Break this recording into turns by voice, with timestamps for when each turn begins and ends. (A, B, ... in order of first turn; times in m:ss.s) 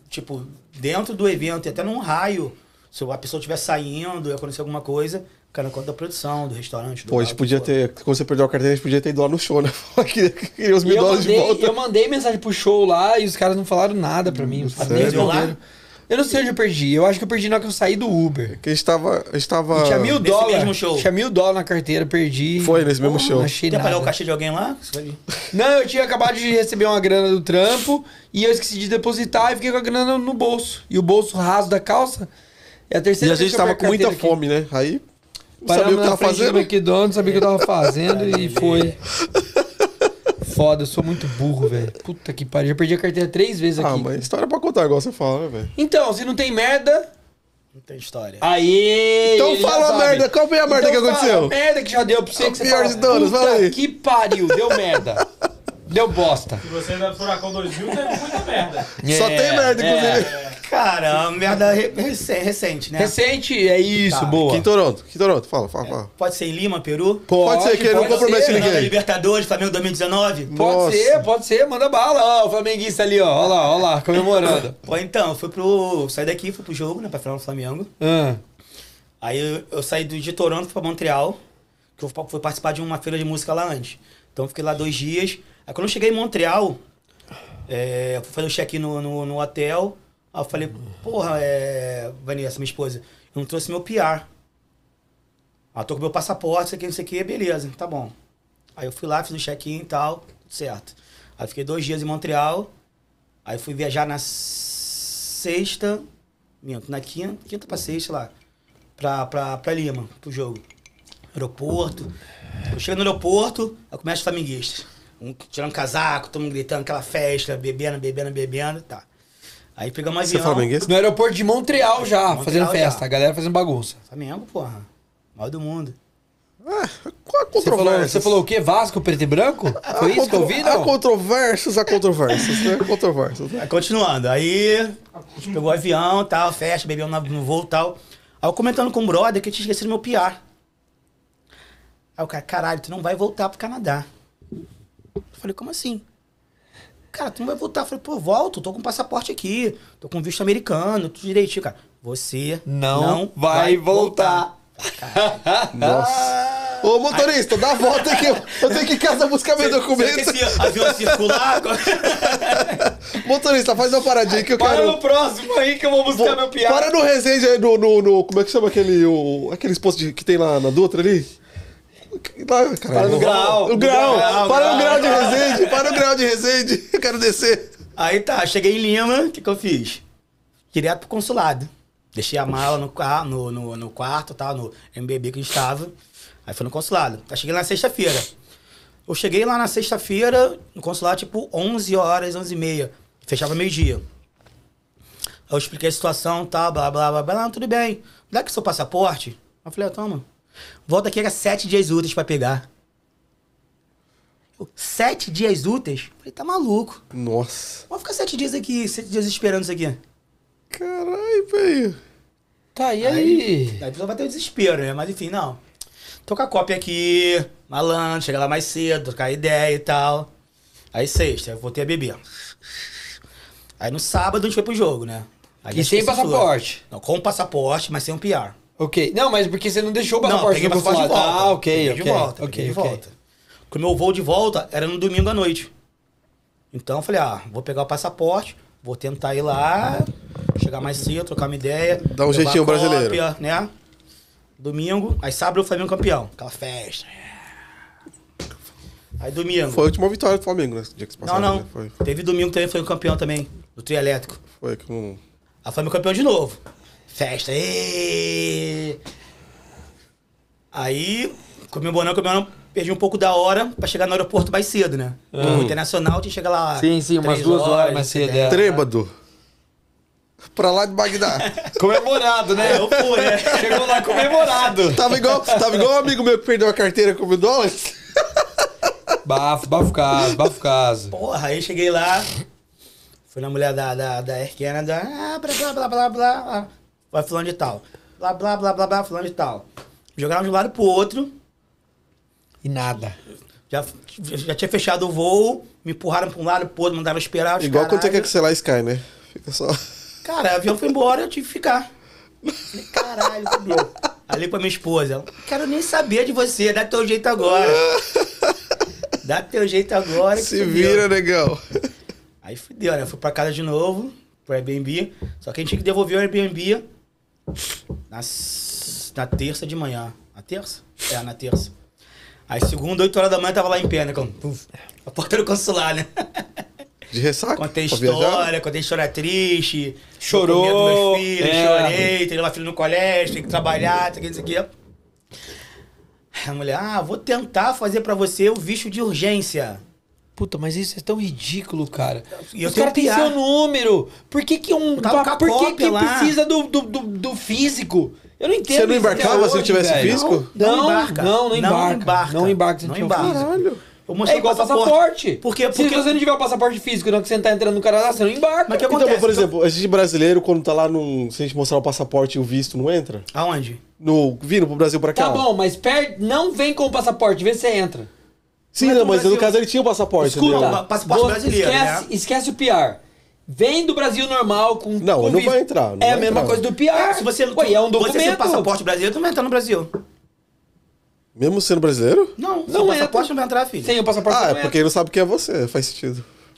0:00.1-0:07.7 A
0:07.1-0:11.8 B
0:10.8-0:15.6 C
0:14.3-0:15.4 B
0:14.8-0:15.6 A
0:16.1-0:18.6 C
0:18.5-0:20.2 B
0:19.8-0:24.1 C
0:20.0-0:21.1 A
0:22.6-0:23.5 B
0:23.7-0:25.2 A
0:25.5-0:32.3 C
0:32.9-0:34.4 C
0:33.2-0:35.0 B
0:35.6-0:36.7 B
0:35.7-0:39.0 C
0:38.1-0:39.0 A
0:39.3-0:39.9 B
0:40.4-0:44.2 C
0:43.8-0:45.7 B
0:45.8-0:47.1 C
0:47.7-0:48.4 A
0:48.4-0:55.2 C
0:49.3-0:51.5 B
0:52.4-0:53.8 B
0:54.3-0:55.2 B
0:55.9-0:56.6 C
0:56.6-0:58.9 D
0:59.0-1:00.3 C
0:59.0-1:00.4 B
1:00.6-1:03.2 A
1:03.0-1:04.7 C
1:04.1-1:04.4 A
1:04.4-1:06.1 B
1:05.8-1:10.5 A
1:07.3-1:08.7 C
1:07.4-1:09.0 B
1:10.5-1:11.3 B
1:10.5-1:14.8 C
1:14.8-1:17.9 A
1:18.0-1:18.4 C
1:19.2-1:21.4 A
1:22.0-1:26.8 A
1:27.7-1:34.3 A
1:35.7-1:38.1 A
1:38.8-1:42.7 A
1:43.4-1:46.0 A
1:46.6-1:48.3 A
1:49.0-1:50.6 A
1:51.3-1:52.1 A
1:52.7-1:59.0 A
1:59.8-2:00.7 A
2:00.2-2:00.9 B
2:00.9-2:04.0 C
2:01.9-2:03.0 A
2:04.1-2:06.0 A
2:06.6-2:08.4 B
2:07.6-2:10.9 C
2:09.9-2:13.7 B
2:13.6-2:20.4 A
2:22.2-2:24.1 A
2:25.4-2:26.0 A
2:27.1-2:39.0 A
2:32.7-2:34.5 C
2:35.0-2:36.1 C
2:35.8-2:45.0 B
2:39.6-2:42.8 A
2:44.4-2:46.9 C
2:46.1-2:51.3 B
2:52.1-2:57.7 B
2:52.9-2:55.2 C
2:53.0-2:56.0 A
2:58.0-3:00.0 A
3:00.7-3:05.9 A
3:06.5-3:08.3 A
3:09.1-3:14.0 A
3:15.5-3:20.2 A
3:20.9-3:22.6 A
3:24.6-3:27.0 A
3:27.1-3:27.8 B
3:27.9-3:30.0 A
3:30.7-3:32.0 B
3:32.8-3:33.8 C
3:33.0-3:35.6 A
3:36.3-3:40.3 A
3:40.9-3:42.2 A
3:43.8-3:48.6 A
3:45.7-3:46.8 C
3:48.8-3:53.0 C
3:50.2-3:53.1 A
3:53.7-3:55.7 A
3:56.7-4:03.7 A
4:02.1-4:03.2 B
4:04.6-4:07.3 A
4:09.2-4:09.8 A
4:09.7-4:11.9 B
4:11.2-4:14.4 A
4:14.6-4:15.2 B
4:15.6-4:19.0 A
4:20.7-4:28.8 A
4:25.3-4:25.7 C
4:25.4-4:25.8 B
4:26.8-4:28.6 C
4:28.5-4:29.1 B
4:30.5-4:31.5 B
4:31.4-4:31.7 A
4:31.8-4:35.8 C
4:32.6-4:34.7 A
4:32.7-4:33.5 B
4:34.8-4:38.0 B
4:39.2-4:41.1 C
4:41.1-4:42.3 A
4:43.3-4:49.6 A
4:50.2-4:51.3 A
4:52.6-4:53.2 C
4:53.7-4:58.3 A
4:57.6-4:59.8 B
5:00.2-5:01.9 A
5:02.6-5:07.9 A
5:07.5-5:08.5 B
5:09.2-5:11.1 A
5:10.3-5:11.8 B
5:12.4-5:16.8 A
5:18.1-5:21.7 A
5:22.5-5:26.4 A
5:27.1-5:28.5 B
5:27.6-5:34.7 A
5:30.2-5:32.1 C
5:36.4-5:39.8 A
5:40.4-5:53.5 C
5:42.4-5:43.4 A
5:45.0-5:46.4 A
5:48.7-5:50.5 B
5:49.2-5:53.5 A
5:53.2-5:53.8 B
5:54.1-5:56.1 A
5:54.2-5:58.9 C
5:58.7-5:59.5 A
5:58.8-6:03.3 B
6:03.3-6:03.8 A
6:04.0-6:05.5 B
6:05.2-6:08.1 C
6:08.7-6:10.8 B
6:08.8-6:09.6 A
6:10.2-6:18.7 C
6:10.4-6:12.1 A
6:15.0-6:16.6 B
6:16.9-6:19.9 A
6:21.4-6:22.3 B
6:22.4-6:23.9 A
6:22.7-6:23.3 C
6:23.8-6:24.8 C
6:24.3-6:26.3 B